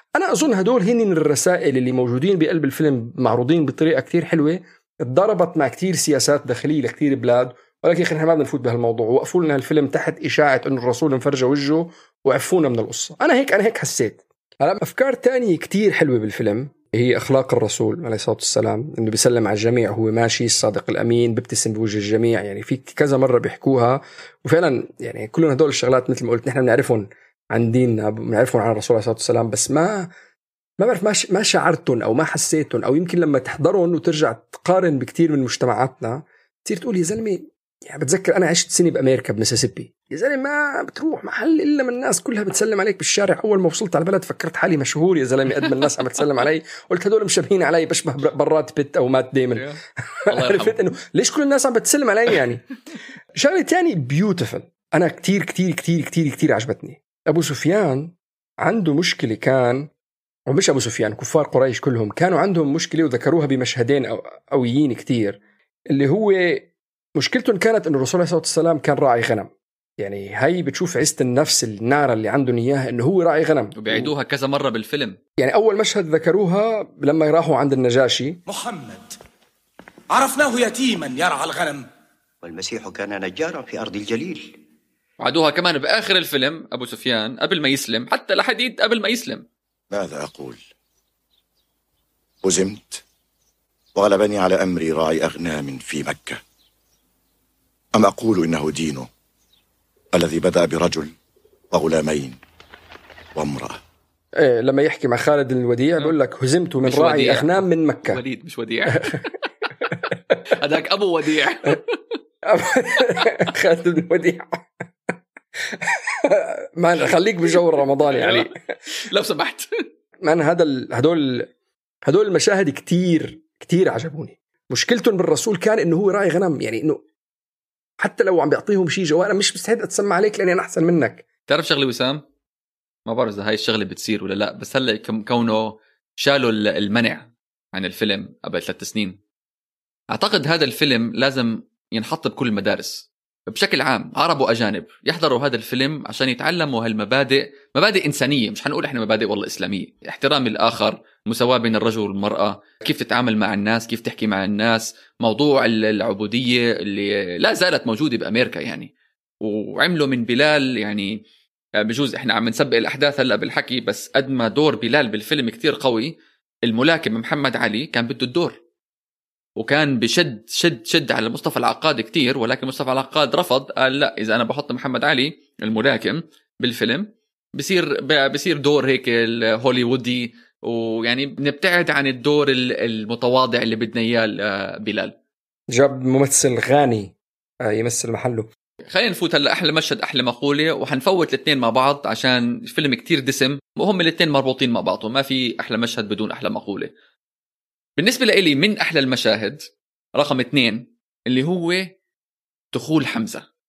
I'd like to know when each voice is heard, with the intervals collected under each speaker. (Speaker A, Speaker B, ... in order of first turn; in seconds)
Speaker A: 0.1-30.1, 30.8-49.7, 50.3-52.6, 53.4-59.9, 60.5-65.4, 65.9-74.1, 75.4-78.4, 104.4-108.2, 112.5-114.6, 116.2-118.6, 120.2-121.5, 122.1-127.0, 128.0-131.2, 185.7-188.5
Speaker B: 50.3-50.8, 73.8-75.2, 85.2-89.5, 106.8-109.2, 110.5-111.9, 118.1-119.7, 131.5-132.2, 133.1-139.2, 140.1-158.9, 159.4-161.2, 161.8-166.1, 166.7-168.6, 169.6-185.1, 188.9-196.9, 198.0-199.6, 200.2-201.9, 202.7-203.4
Speaker C: 78.5-79.2, 80.1-81.9
Speaker D: 82.4-84.6
Speaker E: 89.9-90.6, 92.4-93.0, 94.0-96.4, 98.0-99.1, 100.1-101.1, 101.7-102.4, 103.3-103.8